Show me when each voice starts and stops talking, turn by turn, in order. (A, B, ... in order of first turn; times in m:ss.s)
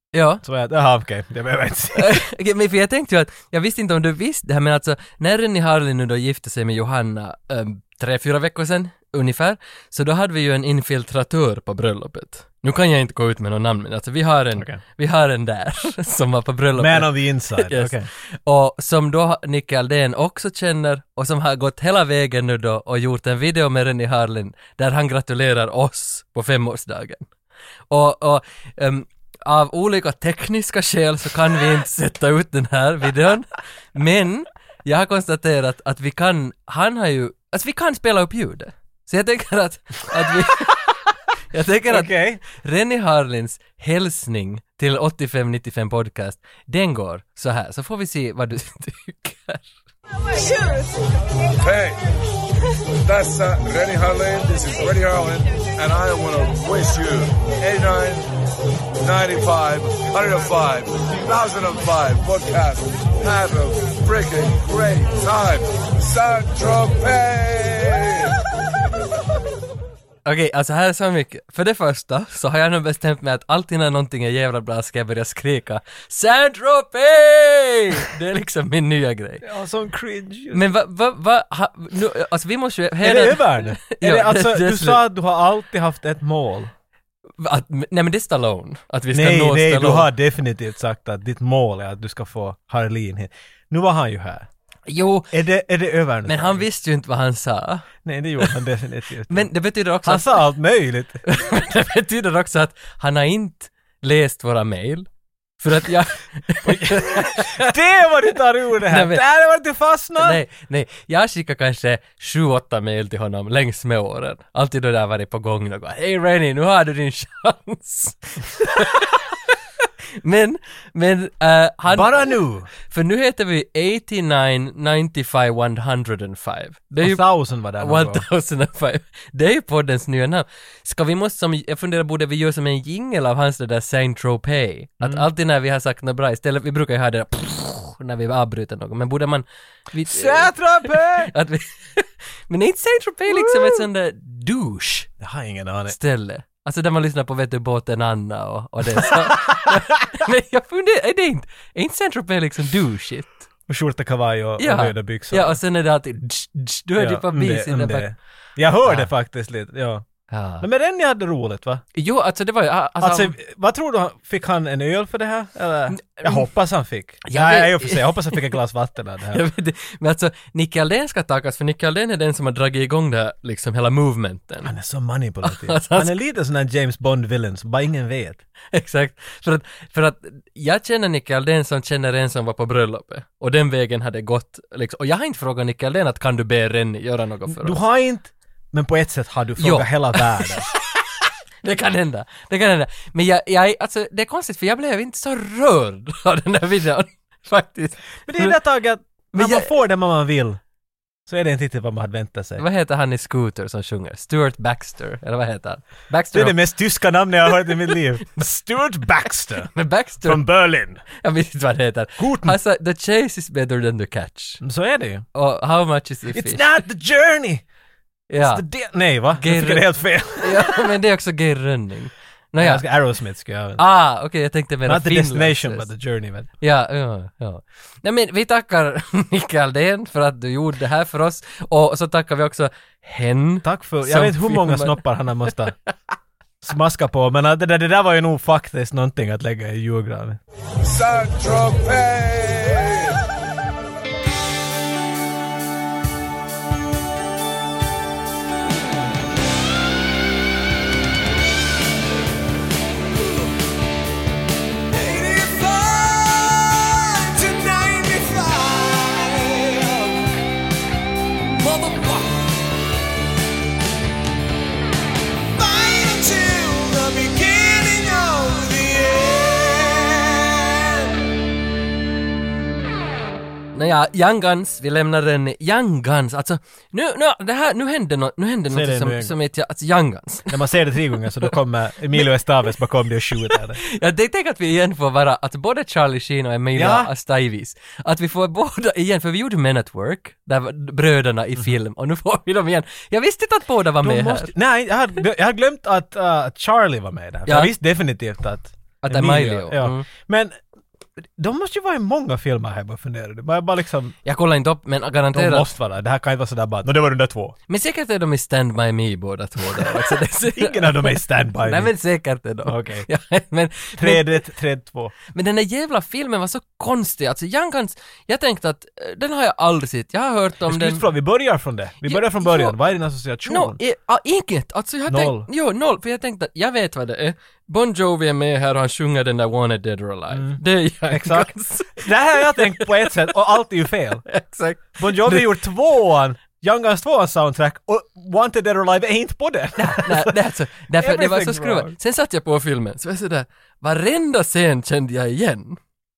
0:00.1-0:00.4 A
0:00.4-0:02.2 B
0:02.0-0:27.3 A
0:16.8-0:18.1 B
0:27.9-0:40.9 A
0:41.5-0:49.7 A
0:41.9-0:42.4 B
0:50.4-0:50.8 C
0:51.5-0:52.0 C
0:53.0-0:58.3 C
0:59.0-1:08.3 C
1:10.3-1:19.4 A
1:19.4-1:20.6 B
1:20.5-1:25.0 A
1:23.0-1:26.7 B
1:27.4-1:30.1 A
1:29.1-1:34.5 B
1:34.9-1:35.3 A
1:35.3-1:36.7 B
1:36.3-1:37.9 A
1:38.0-1:39.5 B
1:39.3-1:40.4 A
1:40.0-1:41.2 B
1:41.3-1:45.1 A
1:45.6-1:47.7 A
1:46.6-1:50.4 B
1:48.8-1:49.2 A
1:50.2-1:59.2 A
2:00.2-2:07.2 A
2:01.9-2:02.7 B
2:07.0-2:08.2 B
2:07.8-2:25.1 A
2:15.0-2:15.3 B
2:20.0-2:21.3 B
2:23.3-2:23.8 B
2:25.2-2:26.0 B
2:25.9-2:33.4 A
2:28.9-2:29.8 B
2:33.7-2:35.6 B
2:34.6-2:38.1 A
2:37.0-2:40.0 B
2:38.8-2:39.1 A
2:40.3-2:40.6 A
2:40.6-2:41.8 B
2:42.0-2:43.4 A
2:43.0-2:49.4 B
2:45.9-2:46.5 A
2:47.3-2:48.5 A
2:49.3-2:54.7 A
2:54.6-2:58.4 B
2:55.4-2:56.2 A
2:58.7-3:07.8 A
3:07.5-3:10.7 B
3:09.6-3:10.5 A
3:11.6-3:18.6 A
3:18.3-3:20.6 B
3:19.3-3:19.7 A
3:21.3-3:22.6 B
3:22.6-3:26.7 A
3:26.3-3:29.7 B
3:29.7-3:30.5 A
3:30.2-3:31.0 B
3:31.2-3:34.6 A
3:32.2-3:32.6 B
3:34.6-3:35.2 B
3:35.4-3:36.7 A
3:36.3-3:37.6 B
3:38.3-3:38.6 A
3:38.4-3:40.9 B
3:39.4-3:39.9 A
3:40.4-3:42.8 A
3:42.6-3:43.8 B
3:43.8-3:45.9 A
3:44.9-3:46.5 B
3:46.6-3:55.5 A
3:53.6-3:55.8 B
3:56.6-4:00.4 B
4:00.8-4:03.2 C
4:14.9-4:20.3 B
4:21.6-4:22.4 B
4:25.6-4:31.1 B
4:33.7-4:40.5 A
4:38.7-4:39.4 B
4:40.5-4:43.8 B
4:43.5-4:54.5 A
4:46.8-4:47.1 B
4:54.0-5:00.5 B
4:57.5-4:57.7 A
4:59.0-5:00.1 A
5:01.4-5:04.2 B
5:04.2-5:05.7 A
5:05.3-5:07.6 B
5:07.7-5:14.4 A
5:09.7-5:11.9 B
5:12.6-5:13.1 B
5:14.0-5:15.1 B
5:15.3-5:21.0 A
5:20.7-5:23.8 B
5:22.0-5:22.8 A
5:23.5-5:33.4 A
5:25.1-5:25.5 B
5:30.3-5:34.3 B
5:34.3-5:35.6 A
5:35.0-5:40.4 B
5:39.8-5:45.8 A
5:40.9-5:42.0 B